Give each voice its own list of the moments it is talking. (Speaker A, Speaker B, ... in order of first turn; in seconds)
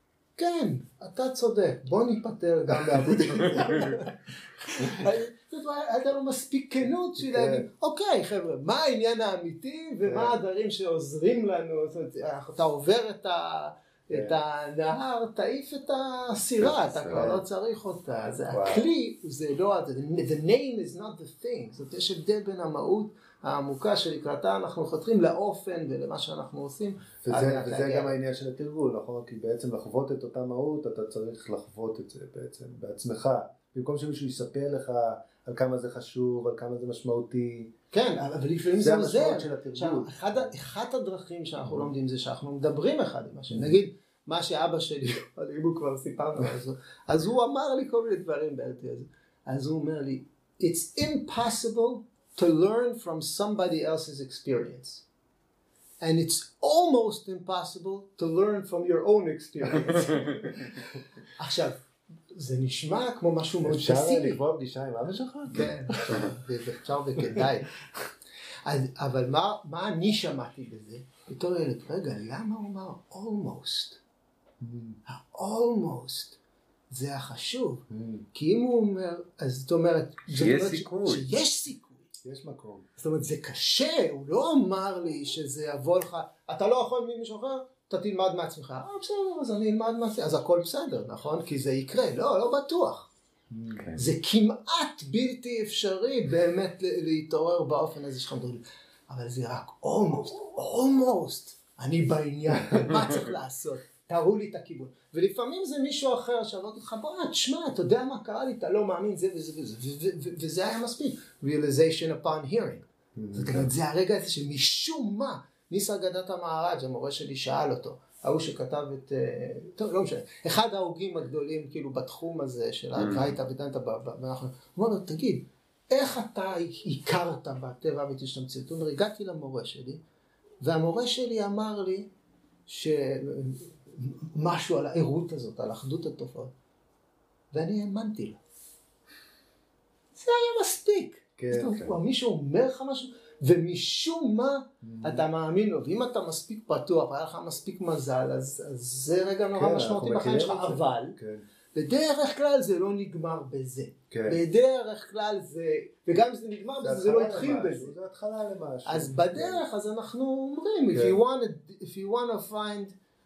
Speaker A: 0.4-28.2, 37.9-55.0, 56.0-64.4, 65.5-67.7, 68.7-74.0, 75.1-76.4, 76.9-82.1, 83.0-93.1, 94.0-130.0, 130.6-132.1, 132.7-136.5, 137.5-138.4, 140.2-151.2, 151.7-157.9, 158.9-162.9
Speaker B: 3.3-4.0, 7.2-7.7, 10.1-10.4, 14.1-14.4, 17.1-17.4, 18.5-18.9, 27.2-37.7, 38.8-40.5, 63.6-66.2, 74.6-75.0, 77.9-78.3, 82.2-82.9, 93.5-93.8, 113.2-113.7, 141.4-142.0, 144.8-145.3, 149.5-151.4, 154.1-154.4, 156.8-159.6, 160.9-161.2
Speaker C: 16.6-17.2, 60.0-60.4, 80.3-81.2, 93.8-94.0, 123.0-123.3